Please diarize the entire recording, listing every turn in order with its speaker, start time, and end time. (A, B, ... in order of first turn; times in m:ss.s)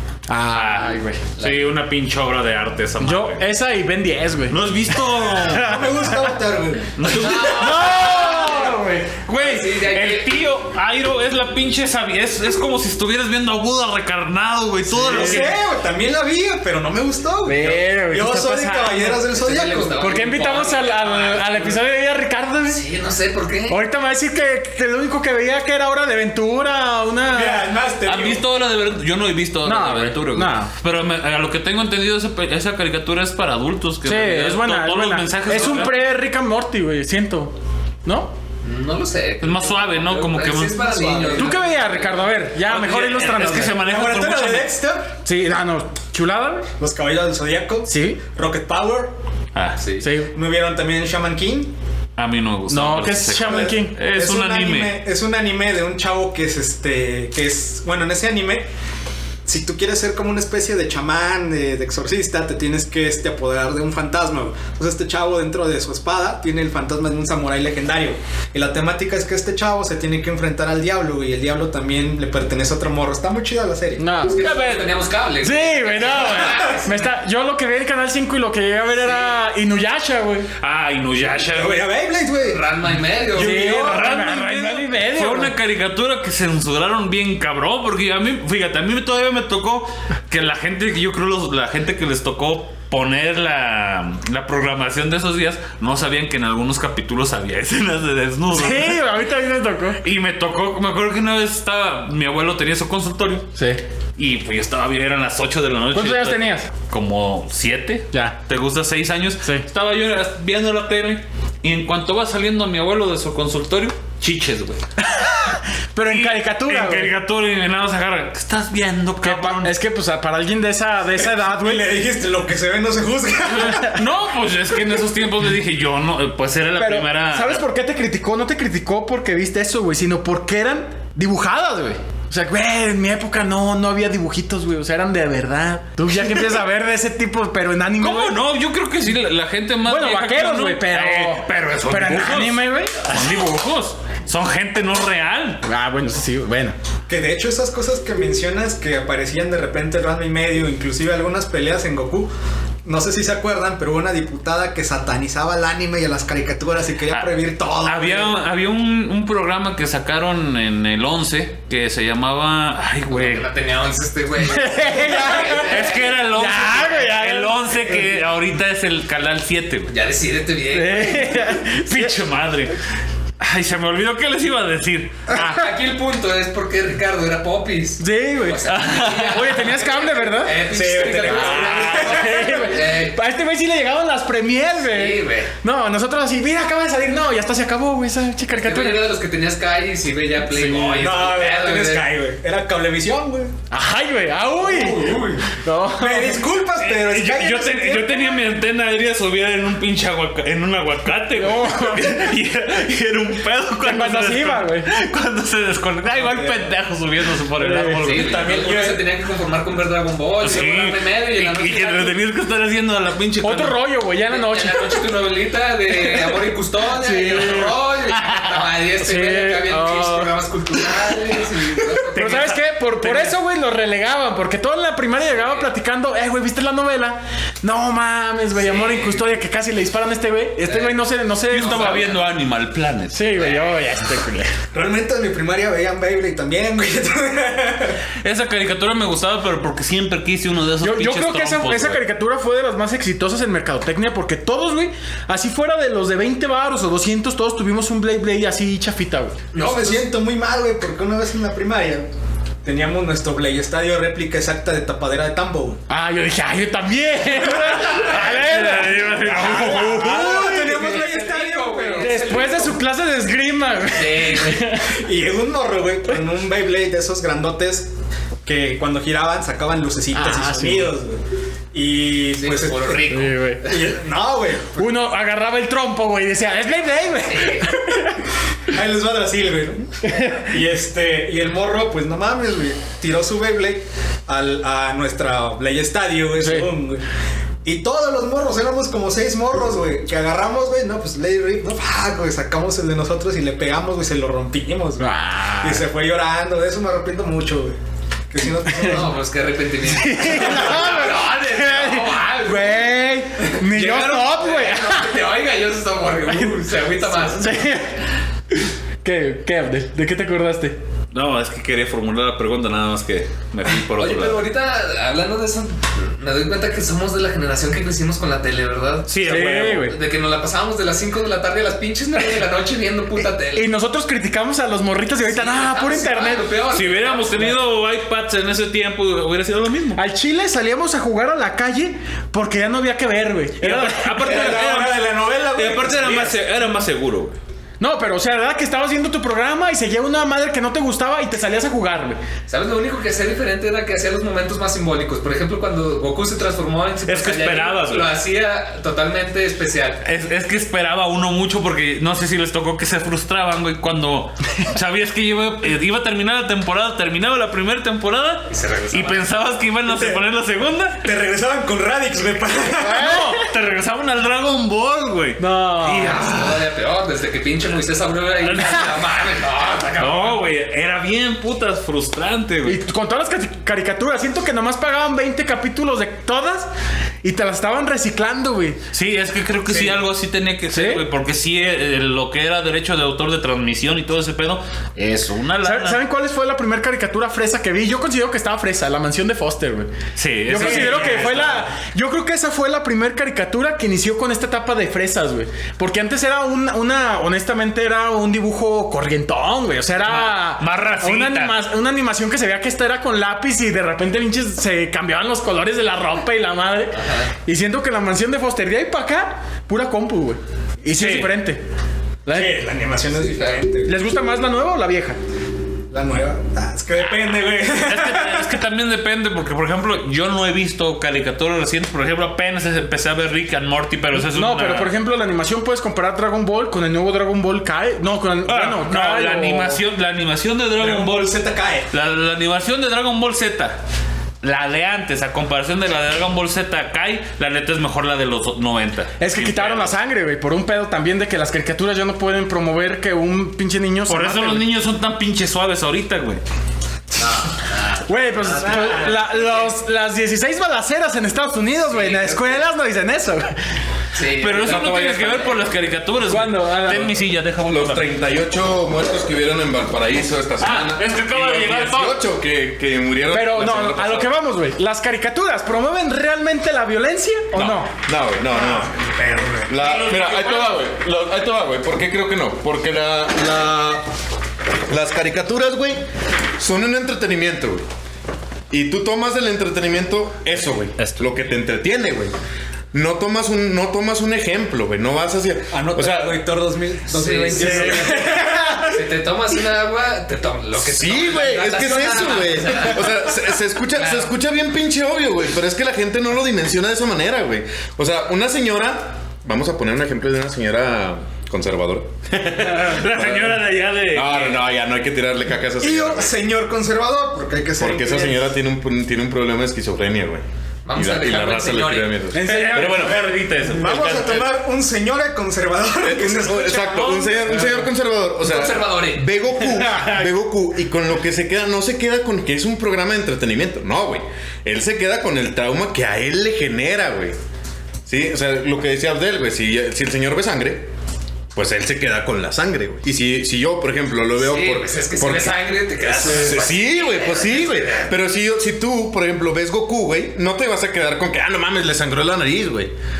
0:00.3-0:01.2 A
0:00.5-0:03.4 B
0:01.4-0:01.6 C
0:03.0-0:04.6 A
0:04.5-0:05.8 B
0:05.4-0:06.3 A
0:05.5-0:07.3 D
0:07.0-0:08.5 B
0:07.1-0:08.8 C
0:07.2-0:09.5 A
0:09.3-0:15.6 B
0:09.4-0:10.4 C
0:14.9-0:20.0 D
0:15.0-0:15.6 A
0:17.4-0:19.2 A
0:19.3-0:21.8 C
0:20.0-0:22.8 A
0:22.7-0:23.8 C
0:23.7-0:27.6 A
0:27.3-0:28.4 D
0:28.0-0:36.0 B
0:29.6-0:30.7 A
0:34.0-0:37.5 A
0:38.0-0:38.3 A
0:38.6-0:42.3 C
0:39.4-0:40.8 B
0:40.8-0:41.6 D
0:41.4-0:43.8 A
0:42.6-0:44.8 B
0:43.7-0:45.1 D
0:45.2-0:46.7 A
0:46.8-0:49.2 D
0:47.9-0:48.2 A
0:49.5-0:49.8 B
0:49.8-0:50.0 C
0:50.0-0:50.3 A
0:50.3-0:51.7 D
0:52.2-0:55.0 B
0:52.7-0:54.0 A
0:53.4-0:58.7 D
0:59.4-1:14.0 D
1:14.0-1:14.8 A
1:14.2-1:17.1 C
1:15.4-1:20.5 A
1:19.0-1:19.3 D
1:20.6-1:21.9 B
1:21.3-1:22.6 D
1:22.4-1:23.8 C
1:23.3-1:25.5 A
1:23.4-1:39.0 B
1:23.4-1:24.1 D
1:38.5-1:40.0 A
1:40.0-1:43.5 B
1:43.5-1:43.8 A
1:44.2-1:54.8 B
1:45.9-1:46.7 A
1:48.1-1:48.4 A
1:55.0-1:57.1 A
1:56.1-1:59.8 B
1:59.2-2:01.8 A
2:01.4-2:03.9 D
2:03.8-2:04.2 A
2:03.9-2:07.6 B
2:06.8-2:18.4 A
2:18.0-2:25.6 B
2:19.8-2:23.0 A
2:25.6-2:26.7 A
2:27.1-2:32.3 D
2:32.8-2:38.3 D
2:37.1-2:43.4 B
2:43.1-2:46.2 C
2:44.5-2:48.2 A
2:45.4-2:49.9 B
2:49.9-2:51.4 C
2:50.7-2:52.2 A
2:51.7-2:52.7 B
2:53.4-2:55.3 B
2:55.3-3:03.2 C
2:55.3-2:55.6 A
2:58.0-3:00.6 A
2:58.7-2:59.6 B
3:00.7-3:02.7 D
3:01.2-3:09.1 A
3:04.8-3:05.5 C
3:08.5-3:12.1 C
3:10.4-3:11.1 A
3:11.0-3:13.5 D
3:13.7-3:16.4 A
3:14.6-3:15.4 D
3:14.7-3:15.4 C
3:16.0-3:18.4 D
3:16.8-3:28.9 B
3:21.3-3:22.3 A
3:23.8-3:24.9 A
3:26.2-3:26.6 D
3:27.6-3:28.6 A
3:28.0-3:32.2 C
3:28.3-3:28.6 D
3:30.4-3:33.8 B
3:33.4-3:35.0 A
3:34.3-3:43.2 C
3:36.8-3:37.8 A
3:38.1-3:38.6 B
3:39.0-3:40.3 A
3:42.1-3:52.1 A
3:45.2-3:45.7 C
3:48.5-3:49.3 C
3:50.6-3:52.3 C
3:51.5-3:53.2 B
3:53.1-3:54.5 A
3:53.4-3:53.8 C
3:54.7-3:58.0 D
3:58.2-4:02.0 B
4:00.8-4:09.4 A
4:09.5-4:10.1 C
4:09.5-4:12.1 D
4:12.6-4:15.8 D
4:15.9-4:25.0 A
4:17.7-4:20.3 B
4:19.3-4:22.4 D
4:20.2-4:22.8 C
4:23.9-4:24.8 C
4:24.9-4:27.9 D
4:28.4-4:31.2 D
4:30.1-4:30.9 A
4:31.7-4:34.9 D
4:32.4-4:33.9 C
4:33.1-4:33.6 A
4:34.8-4:38.3 A
4:37.3-4:37.7 C
4:38.7-4:47.0 D
4:40.0-4:40.5 A
4:46.4-4:46.7 A
4:47.6-4:55.1 D
4:55.0-4:55.8 A
4:55.6-4:57.8 D
4:58.3-4:59.1 D
4:58.7-4:58.9 A
4:58.7-5:07.6 C
4:59.8-5:05.1 A
5:07.4-5:08.0 A
5:09.0-5:10.8 A
5:11.1-5:14.4 B
5:14.0-5:23.7 C
5:19.1-5:19.9 B
5:19.2-5:19.9 A
5:23.5-5:26.5 A
5:25.2-5:27.6 C
5:26.7-5:30.0 B
5:29.9-5:34.3 A
5:33.6-5:35.0 B
5:34.1-5:36.4 D
5:35.5-5:37.4 B
5:37.8-5:42.2 A
5:42.5-5:50.0 C
5:47.0-5:48.1 B
5:50.0-6:01.0 B
5:58.5-5:59.3 C
5:59.8-6:00.2 D
6:01.0-6:03.1 D
6:02.8-6:03.4 A
6:02.8-6:06.7 B
6:05.4-6:06.2 A
6:06.0-6:10.5 C
6:08.4-6:08.9 B
6:10.0-6:12.8 B
6:12.6-6:16.7 A
6:17.2-6:18.8 A
6:18.9-6:26.0 B
6:19.7-6:20.0 D
6:20.7-6:21.0 A
6:25.6-6:29.9 A
6:30.2-6:31.6 B
6:30.4-6:51.6 A
6:40.0-6:41.6 B
6:46.9-6:47.3 C
6:50.9-6:51.3 B
6:52.2-6:52.6 A
6:52.3-6:53.9 D
6:53.2-6:53.6 C
6:53.8-6:55.2 A
6:55.9-6:58.6 D
6:57.8-7:04.9 B
7:04.1-7:09.8 A
7:08.4-7:11.3 B
7:10.8-7:11.9 D
7:11.9-7:13.8 B
7:14.4-7:19.9 B
7:19.2-7:24.6 A
7:24.1-7:26.4 B
7:27.2-7:29.7 C
7:28.0-7:33.6 A
7:28.6-7:29.2 D
7:31.9-7:32.5 B
7:34.1-7:35.6 C
7:34.4-7:38.1 B
7:36.3-7:37.1 A
7:37.6-7:44.3 E
7:40.6-7:42.2 B
7:43.3-7:47.9 A
7:47.6-7:48.9 E
7:48.5-7:49.8 D
7:49.7-7:54.0 E
7:49.8-7:50.8 B
7:54.9-7:56.0 E
7:56.6-7:57.8 E
7:58.7-8:02.3 E
8:02.9-8:06.4 E
8:05.7-8:08.9 D
8:07.1-8:14.3 C
8:07.5-8:09.0 A
8:10.8-8:26.3 E
8:22.6-8:24.7 B
8:25.8-8:28.4 D
8:27.8-8:33.3 E
8:30.8-8:32.2 C
8:32.3-8:33.1 A
8:32.3-8:34.3 B
8:32.3-8:37.2 D
8:33.8-8:34.4 E
8:36.0-8:47.4 E
8:36.9-8:37.8 B
8:38.4-8:39.3 C
8:48.0-8:50.9 E
8:51.5-8:55.6 E
8:54.4-8:58.1 C
8:56.1-9:02.9 E